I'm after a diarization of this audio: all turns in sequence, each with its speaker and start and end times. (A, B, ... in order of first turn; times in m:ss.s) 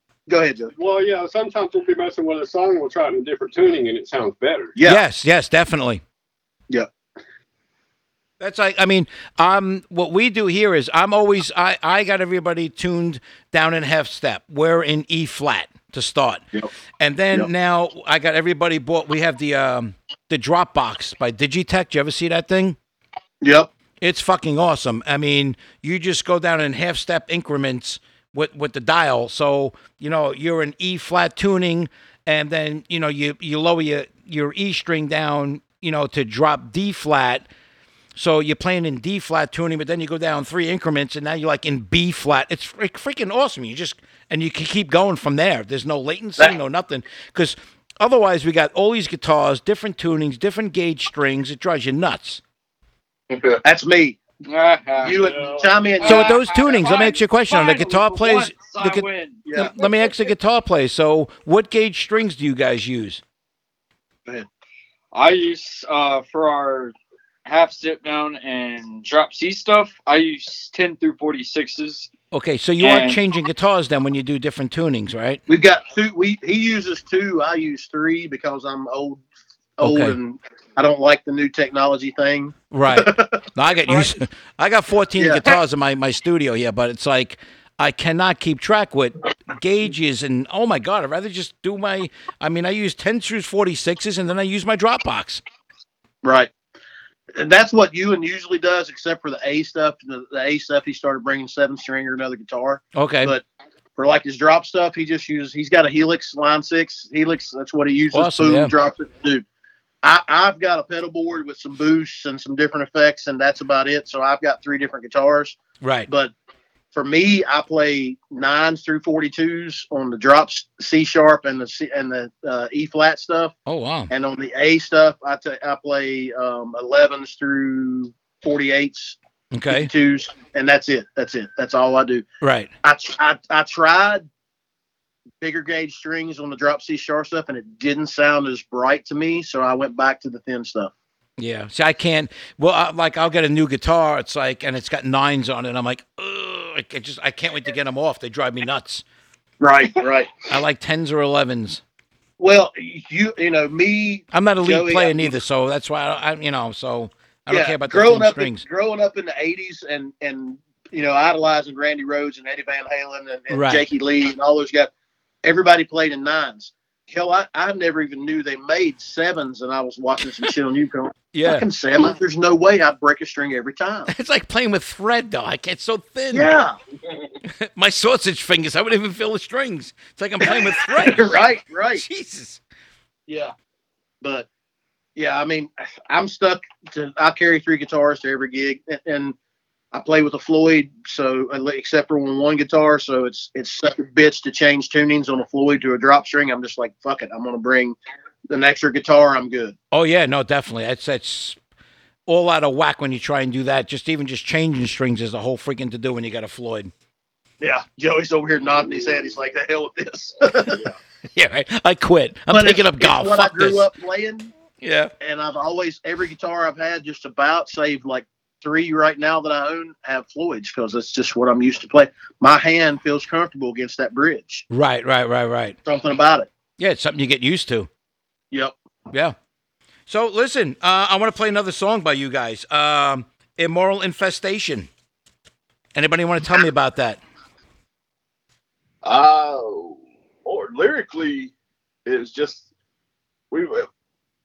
0:00.3-0:00.7 A
0:00.8-0:04.7 B
0:04.8-0:05.0 A
0:04.8-0:06.0 C
0:08.4-0:16.4 C
0:17.0-0:22.8 C
0:23.4-0:23.7 A
0:24.0-0:37.4 C
0:38.1-0:52.4 C
0:53.3-0:53.6 D
0:53.6-0:54.2 A
0:54.4-0:55.2 E
0:55.0-0:56.4 A
0:55.1-0:55.7 B
0:56.0-0:59.4 E
0:56.0-1:03.2 C
0:59.4-0:59.8 A
1:05.1-1:12.1 E
1:12.3-1:15.4 C
1:12.8-1:13.2 E
1:15.5-1:19.2 A
1:19.8-1:24.1 A
1:19.8-1:20.2 C
1:22.7-1:35.4 C
1:25.2-1:25.5 A
1:36.2-1:36.5 A
1:37.3-1:43.4 A
1:42.9-1:43.3 C
1:44.0-1:49.4 A
1:48.1-1:48.7 C
1:50.0-1:55.6 A
1:55.8-1:56.1 C
1:56.1-1:56.3 A
1:56.9-2:03.5 A
2:03.6-2:04.1 C
2:04.1-2:09.2 A
2:09.5-2:09.9 C
2:09.7-2:12.2 A
2:12.4-2:12.7 C
2:12.8-2:14.2 A
2:15.4-2:20.9 A
2:21.4-2:29.0 C
2:29.6-2:30.3 A
2:30.5-2:31.8 C
2:32.4-2:35.4 A
2:34.3-2:38.6 C
2:37.5-2:44.9 A
2:43.5-2:43.8 C
2:45.4-2:54.1 A
2:51.3-2:51.7 C
2:54.1-2:56.5 C
2:56.3-2:56.7 A
2:57.4-3:01.4 C
3:00.4-3:02.0 A
3:01.9-3:02.6 C
3:03.3-3:03.5 A
3:04.2-3:04.5 A
3:05.2-3:09.3 A
3:09.9-3:18.0 A
3:18.5-3:19.8 A
3:19.9-3:21.6 C
3:22.2-3:26.9 C
3:27.6-3:30.8 A
3:31.3-3:33.9 C
3:32.5-3:34.5 A
3:34.8-3:35.1 C
3:35.2-3:44.6 A
3:44.7-3:45.8 C
3:45.8-3:46.5 A
3:46.8-3:47.9 C
3:50.1-3:54.9 C
3:55.9-3:57.2 C
3:59.0-4:01.5 D
4:02.0-4:02.6 D
4:03.5-4:03.9 D